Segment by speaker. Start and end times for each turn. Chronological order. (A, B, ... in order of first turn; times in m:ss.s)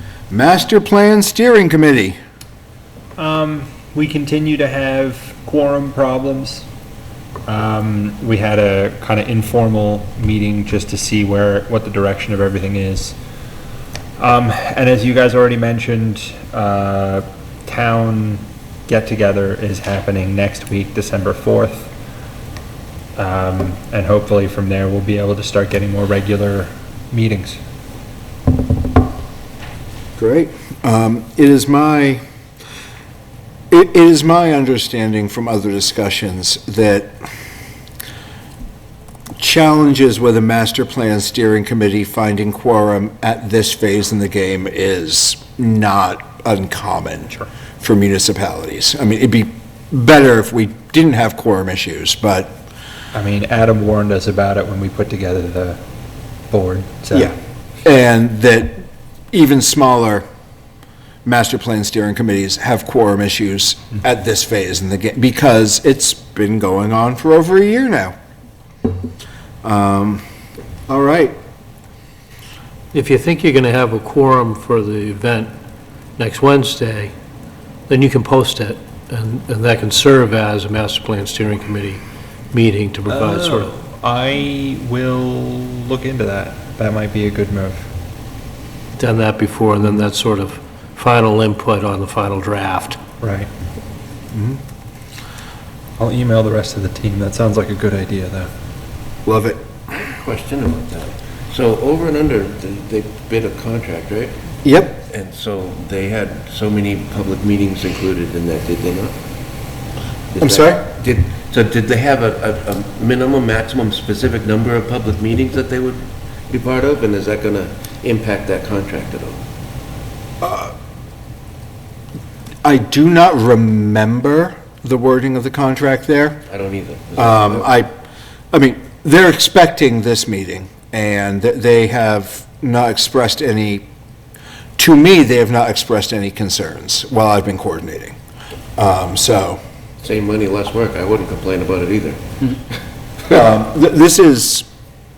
0:00.3-0:02.2 A
0:03.2-0:06.7 B
0:07.5-0:13.2 B
0:14.2-0:21.9 B
0:23.2-0:27.6 B
0:30.2-0:32.2 A
0:33.7-0:37.3 A
0:39.4-0:52.6 A
0:53.1-0:55.8 B
0:56.5-0:57.3 B
0:57.1-1:00.2 A
1:01.2-1:08.2 A
1:09.6-1:10.2 A
1:10.9-1:11.4 A
1:12.9-1:15.5 C
1:16.2-1:17.1 C
1:17.9-1:23.8 C
1:23.1-1:27.9 B
1:29.0-1:33.0 C
1:33.2-1:33.5 B
1:34.3-1:34.6 A
1:36.0-1:38.5 B
1:39.3-1:39.7 A
1:39.9-1:44.4 D
1:44.6-1:45.0 A
1:45.1-1:49.2 D
1:50.3-1:59.4 D
1:50.4-1:50.8 A
2:00.4-2:00.7 A
2:02.6-2:06.5 A
2:06.5-2:07.7 D
2:07.2-2:07.9 A
2:08.5-2:13.9 A
2:14.8-2:18.2 A
2:18.8-2:19.6 A
2:20.0-2:22.3 D
2:23.3-2:24.7 A